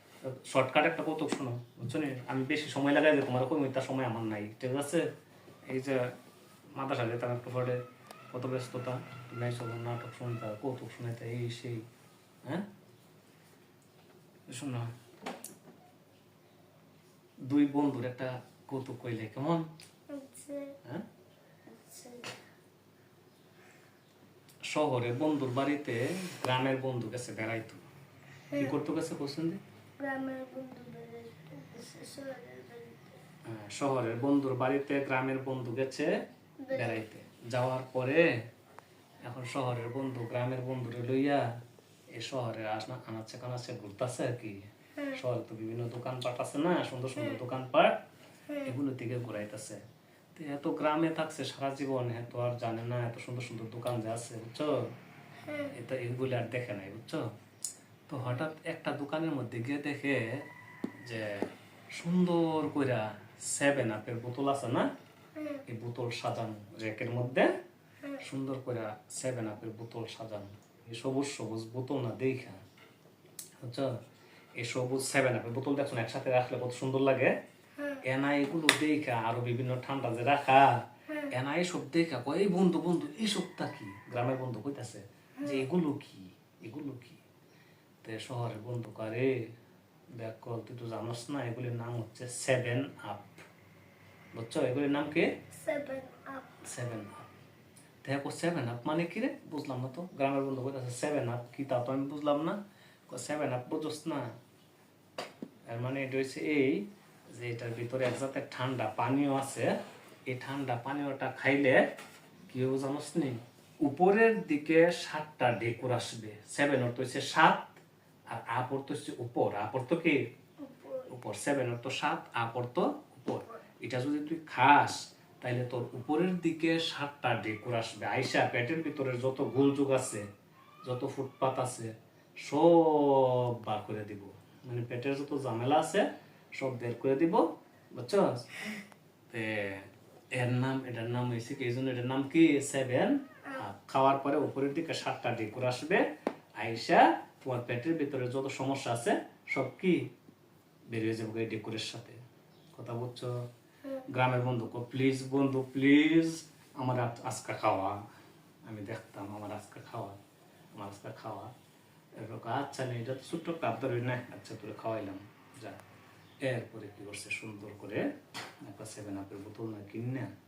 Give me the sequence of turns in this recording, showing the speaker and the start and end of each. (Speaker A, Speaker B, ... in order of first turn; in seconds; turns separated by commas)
Speaker A: 0.2-5.1, Speaker A: 5.7-6.1, Speaker A: 6.8-11.8, Speaker A: 14.5-14.9, Speaker A: 17.4-19.7, Speaker B: 20.1-20.7, Speaker B: 21.7-22.4, Speaker A: 24.6-27.8, Speaker B: 28.5-28.8, Speaker A: 28.6-29.6, Speaker B: 30.0-33.2, Speaker A: 33.5-36.1, Speaker B: 36.6-37.0, Speaker A: 36.7-38.3, Speaker A: 39.2-41.4, Speaker A: 42.1-44.6, Speaker B: 45.0-45.2, Speaker A: 45.1-48.0, Speaker A: 48.6-49.8, Speaker A: 50.3-54.8, Speaker B: 55.5-55.7, Speaker A: 55.7-57.2, Speaker A: 58.1-60.4, Speaker A: 61.0-64.9, Speaker B: 65.4-65.6, Speaker A: 65.7-67.5, Speaker A: 68.2-72.6, Speaker A: 73.6-73.9, Speaker A: 74.6-77.3, Speaker B: 77.8-78.0, Speaker A: 78.0-87.2, Speaker A: 88.0-89.5, Speaker A: 90.2-93.4, Speaker A: 94.3-95.3, Speaker B: 95.5-96.6, Speaker A: 96.6-97.3, Speaker A: 98.0-104.3, Speaker A: 105.7-109.7, Speaker A: 110.3-111.8, Speaker A: 112.5-117.8, Speaker A: 118.3-120.2, Speaker B: 120.6-121.1, Speaker A: 121.1-130.2, Speaker A: 130.8-131.9, Speaker A: 132.4-138.5, Speaker A: 139.3-146.1, Speaker A: 146.6-150.1, Speaker A: 150.9-152.2, Speaker A: 152.7-153.4, Speaker A: 154.1-158.0, Speaker A: 158.7-160.2, Speaker A: 160.7-161.5, Speaker A: 162.2-165.8, Speaker A: 166.4-168.1, Speaker A: 168.6-170.3